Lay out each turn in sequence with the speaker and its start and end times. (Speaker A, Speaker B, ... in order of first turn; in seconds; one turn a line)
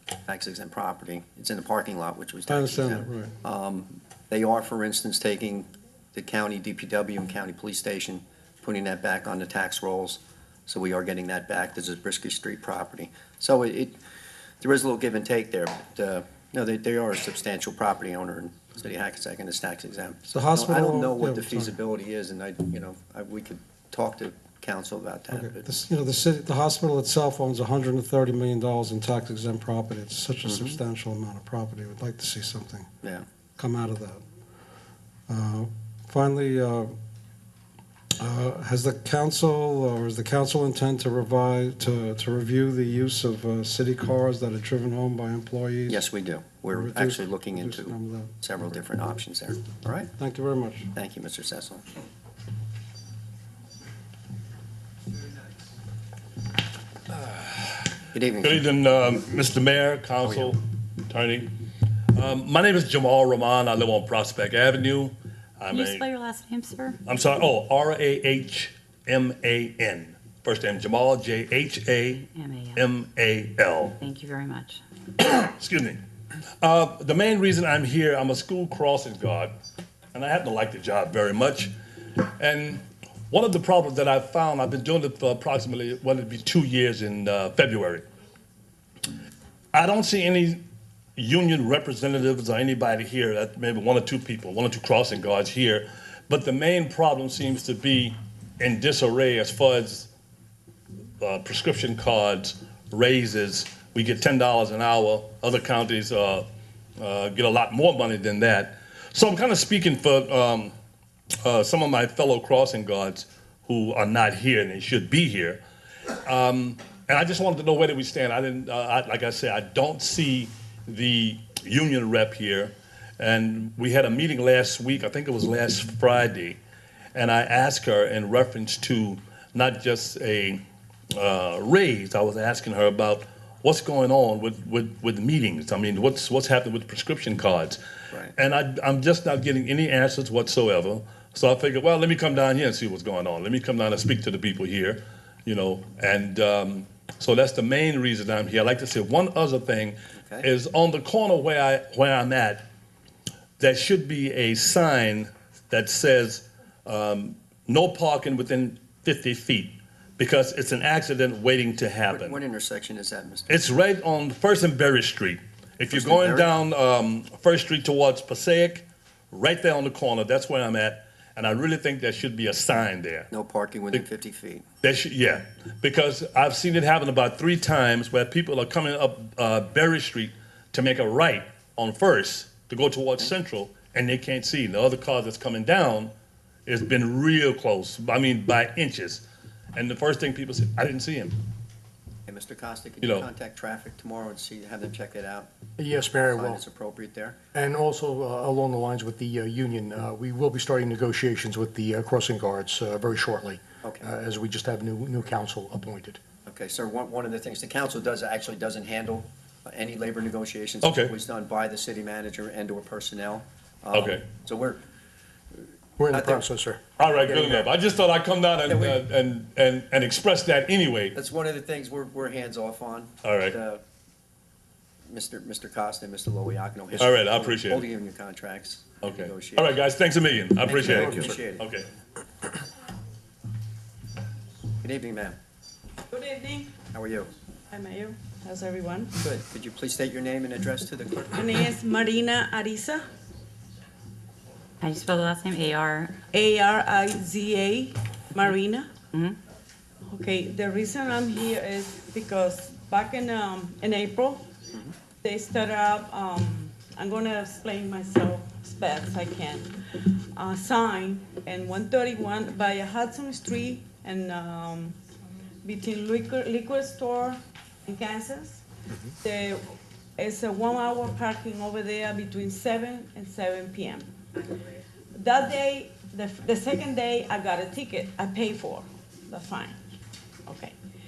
Speaker A: 0.2-14.0
Speaker B: 2.5-3.3
Speaker A: 14.6-25.7
Speaker B: 20.3-21.7
Speaker B: 25.3-32.9
Speaker A: 30.4-30.8
Speaker B: 33.6-34.2
Speaker B: 35.3-36.9
Speaker B: 38.2-46.0
Speaker A: 45.9-50.1
Speaker B: 46.7-48.3
Speaker B: 50.2-50.9
Speaker A: 50.9-51.8
Speaker C: 57.1-57.6
Speaker A: 58.1-58.6
Speaker C: 58.4-61.5
Speaker C: 62.1-66.0
Speaker D: 65.7-67.0
Speaker C: 67.0-74.0
Speaker D: 72.2-72.8
Speaker D: 74.0-74.8
Speaker C: 75.2-76.0
Speaker C: 76.6-79.5
Speaker C: 80.1-88.0
Speaker C: 89.7-90.6
Speaker C: 91.2-100.1
Speaker C: 101.2-106.5
Speaker C: 107.0-110.7
Speaker C: 111.4-115.6
Speaker C: 116.2-126.6
Speaker C: 127.2-130.6
Speaker C: 131.1-137.8
Speaker C: 138.3-152.7
Speaker A: 150.2-150.5
Speaker C: 153.6-162.4
Speaker A: 162.1-163.5
Speaker C: 163.5-173.3
Speaker A: 165.9-166.5
Speaker A: 173.3-174.7
Speaker C: 174.8-186.1
Speaker C: 186.7-189.2
Speaker C: 189.8-191.3
Speaker A: 192.3-195.5
Speaker C: 193.0-193.3
Speaker E: 195.8-196.6
Speaker A: 196.3-197.4
Speaker E: 197.5-206.2
Speaker A: 206.5-214.8
Speaker C: 210.8-211.1
Speaker C: 213.9-214.2
Speaker E: 216.0-216.8
Speaker A: 216.1-216.4
Speaker C: 217.0-221.2
Speaker A: 218.7-219.0
Speaker A: 221.1-223.8
Speaker C: 223.2-223.6
Speaker A: 225.1-229.8
Speaker C: 227.0-227.8
Speaker C: 229.0-231.9
Speaker A: 230.7-231.7
Speaker A: 234.8-235.4
Speaker F: 236.1-236.8
Speaker A: 236.9-237.3
Speaker F: 237.7-239.2
Speaker A: 239.2-241.5
Speaker F: 241.3-243.0
Speaker D: 244.8-246.2
Speaker F: 246.3-248.9
Speaker D: 249.1-249.4
Speaker F: 250.1-254.5
Speaker F: 255.2-259.8
Speaker F: 260.3-264.9
Speaker F: 265.6-268.6
Speaker F: 269.2-269.6
Speaker F: 270.2-274.1
Speaker F: 275.1-279.8
Speaker F: 280.4-280.8